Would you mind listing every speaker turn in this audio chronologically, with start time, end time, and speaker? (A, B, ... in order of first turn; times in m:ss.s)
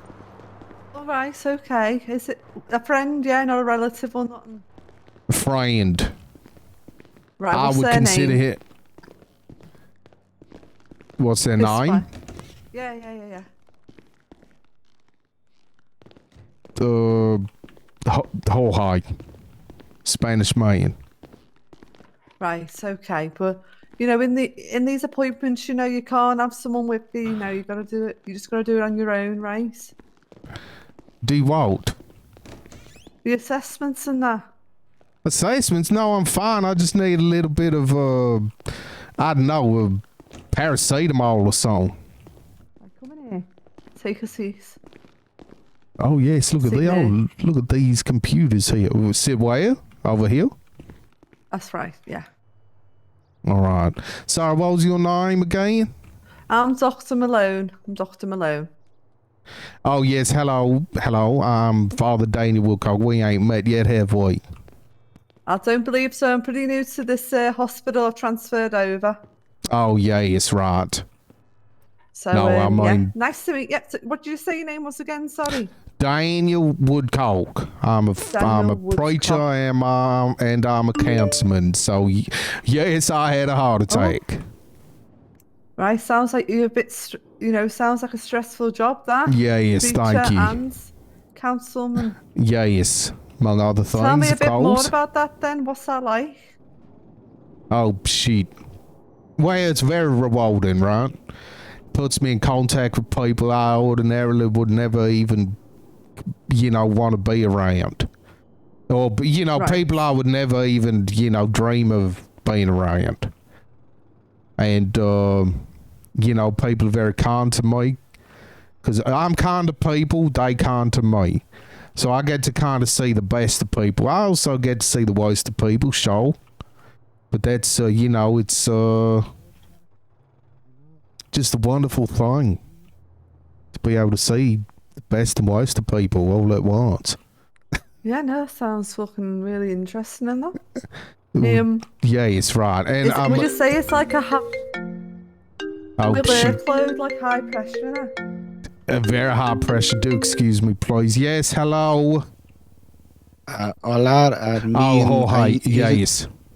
0:00.9-0:04.6 A
0:05.3-0:06.1 B
0:07.4-0:08.4 A
0:07.5-0:08.6 B
0:11.2-0:12.0 B
0:11.6-0:12.0 A
0:12.7-0:13.5 A
0:16.8-0:17.4 B
0:18.0-0:19.0 B
0:20.0-0:21.0 B
0:22.4-0:29.9 A
0:31.2-0:32.0 B
0:33.2-0:34.4 A
0:35.2-0:38.5 B
0:39.2-0:41.9 B
0:42.8-0:44.8 A
0:46.0-0:50.5 B
0:46.6-0:47.1 A
0:51.5-0:52.3 A
0:53.4-0:55.9 B
0:56.5-0:58.7 A
0:59.8-1:04.4 B
1:05.5-1:09.2 A
1:09.7-1:11.0 B
1:12.1-1:15.7 A
1:12.3-1:13.1 B
1:16.0-1:24.4 B
1:18.3-1:19.4 A
1:23.9-1:24.2 A
1:25.8-1:32.2 A
1:29.3-1:30.6 B
1:32.2-1:34.9 B
1:33.9-1:36.4 A
1:37.7-1:38.5 B
1:39.4-1:41.1 B
1:41.9-1:45.6 B
1:46.5-1:48.1 B
1:48.9-1:53.3 B
1:49.5-1:49.8 A
1:54.6-1:58.0 B
1:58.8-2:01.4 B
2:02.0-2:06.4 B
2:07.3-2:09.2 B
2:11.3-2:12.6 B
2:13.7-2:17.2 B
2:18.0-2:20.6 A
2:21.3-2:23.5 B
2:21.4-2:21.9 A
2:23.0-2:24.5 A
2:26.0-2:26.6 B
2:26.0-2:28.1 A
2:28.9-2:32.2 B
2:33.5-2:36.0 C
2:34.7-2:36.3 B